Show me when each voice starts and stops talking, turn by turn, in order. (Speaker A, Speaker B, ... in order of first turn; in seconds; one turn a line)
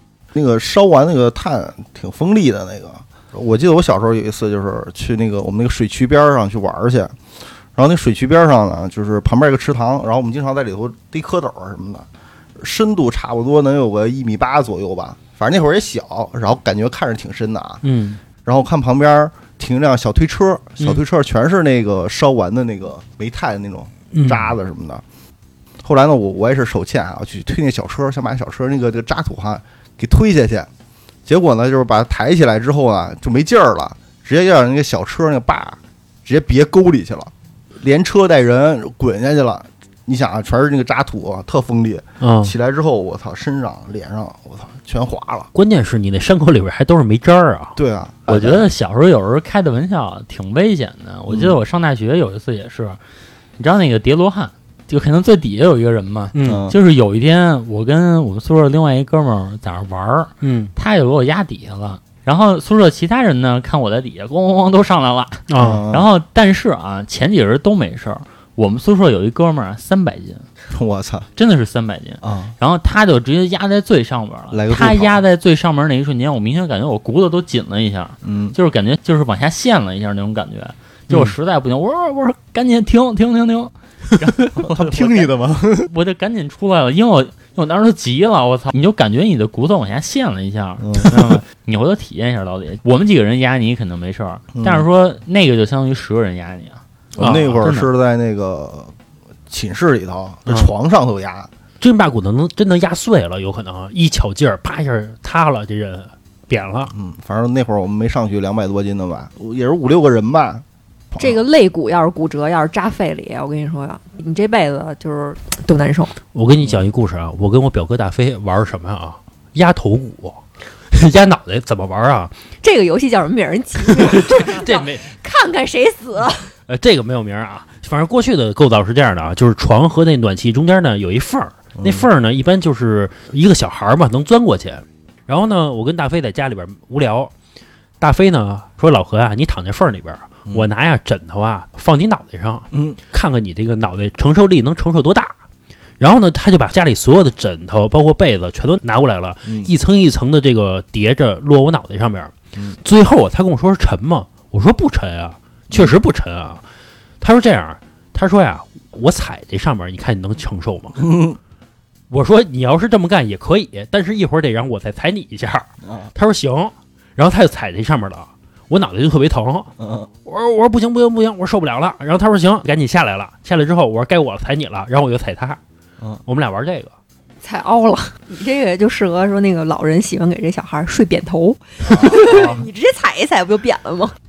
Speaker A: 0.3-7.2
Speaker A: 7.8-17.8
Speaker B: 17.8-18.2
Speaker A: 18.4-25.0
Speaker B: 24.1-24.5
Speaker A: 25.8-30.7
Speaker A: 31.3-45.5
Speaker B: 42.2-42.5
Speaker B: 45.5-47.8
Speaker A: 47.8-48.7
Speaker C: 48.3-53.0
Speaker A: 51.3-51.6
Speaker C: 53.6-70.5
Speaker B: 56.3-56.6
Speaker A: 56.4-56.8
Speaker B: 60.4-60.7
Speaker B: 65.5-65.8
Speaker A: 65.6-66.1
Speaker A: 70.7-71.3
Speaker C: 71.4-97.9
Speaker A: 72.2-72.5
Speaker A: 74.5-75.2
Speaker A: 78.2-78.6
Speaker A: 84.6-85.9
Speaker A: 90.8-91.4
Speaker A: 94.5-94.9
Speaker A: 97.2-99.0
Speaker B: 97.2-97.7
Speaker A: 99.5-101.5
Speaker B: 101.8-106.9
Speaker A: 106.9-111.4
Speaker D: 111.2-116.1
Speaker B: 116.3-122.4
Speaker D: 122.6-126.5
Speaker B: 124.0-125.1
Speaker B: 126.7-137.3
Speaker A: 131.8-132.1
Speaker B: 138.0-145.3
Speaker A: 142.7-143.0
Speaker B: 146.0-156.6
Speaker B: 157.2-161.1
Speaker A: 161.1-161.4
Speaker B: 162.1-169.7
Speaker A: 165.8-166.1
Speaker A: 169.8-170.1
Speaker B: 170.2-175.6
Speaker B: 176.3-176.9
Speaker D: 177.4-184.2
Speaker A: 181.9-182.6